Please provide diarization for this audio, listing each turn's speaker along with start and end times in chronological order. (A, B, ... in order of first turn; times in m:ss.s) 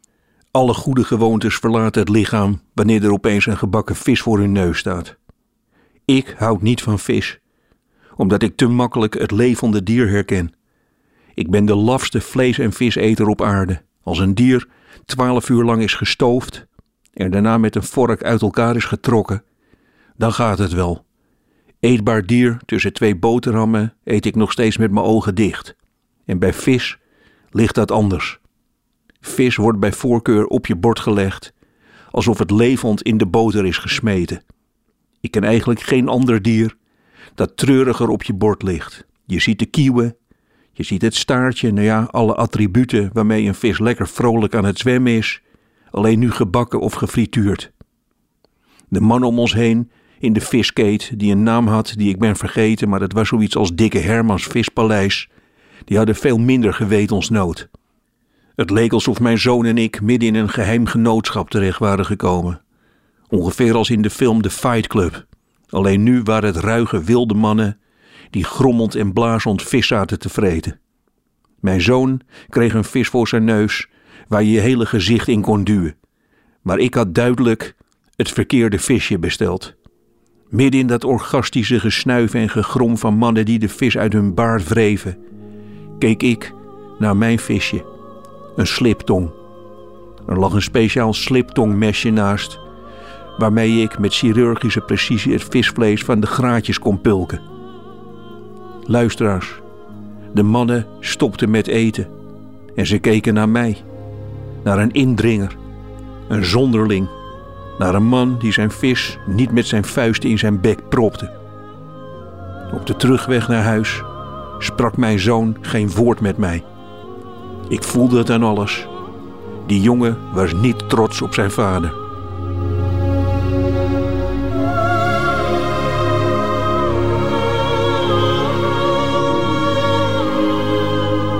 0:00.5-0:05.2 A
0:06.1-0:07.4 A
0:08.2-0:10.5 A
0:11.4-0:16.6 A
0:17.2-0:19.4 A
0:20.2-0:21.0 A
0:21.8-0:25.7 A
0:26.3-0:27.0 A
0:27.5-0:28.4 A
0:29.2-0:31.5 A
0:32.1-0:34.4 A
0:35.2-0:36.7 A
0:37.4-0:40.1 A
0:40.8-0:47.7 A
0:48.9-0:55.3 A
0:55.9-0:57.7 A
0:58.6-1:02.6 A
1:03.3-1:07.8 A
1:08.3-1:10.8 A
1:11.6-1:15.9 A
1:16.6-1:19.7 A
1:20.5-1:25.2 A
1:26.0-1:27.8 A
1:28.6-1:29.4 A
1:30.3-1:32.6 A
1:33.4-1:37.4 A
1:38.8-1:39.6 A
1:40.3-1:42.1 A
1:42.8-1:43.8 A
1:44.6-1:45.6 A
1:46.3-1:47.1 A
1:47.8-1:51.3 A
1:52.7-1:54.1 A
1:54.6-1:56.6 A
1:57.7-1:58.9 A
1:59.6-2:02.0 A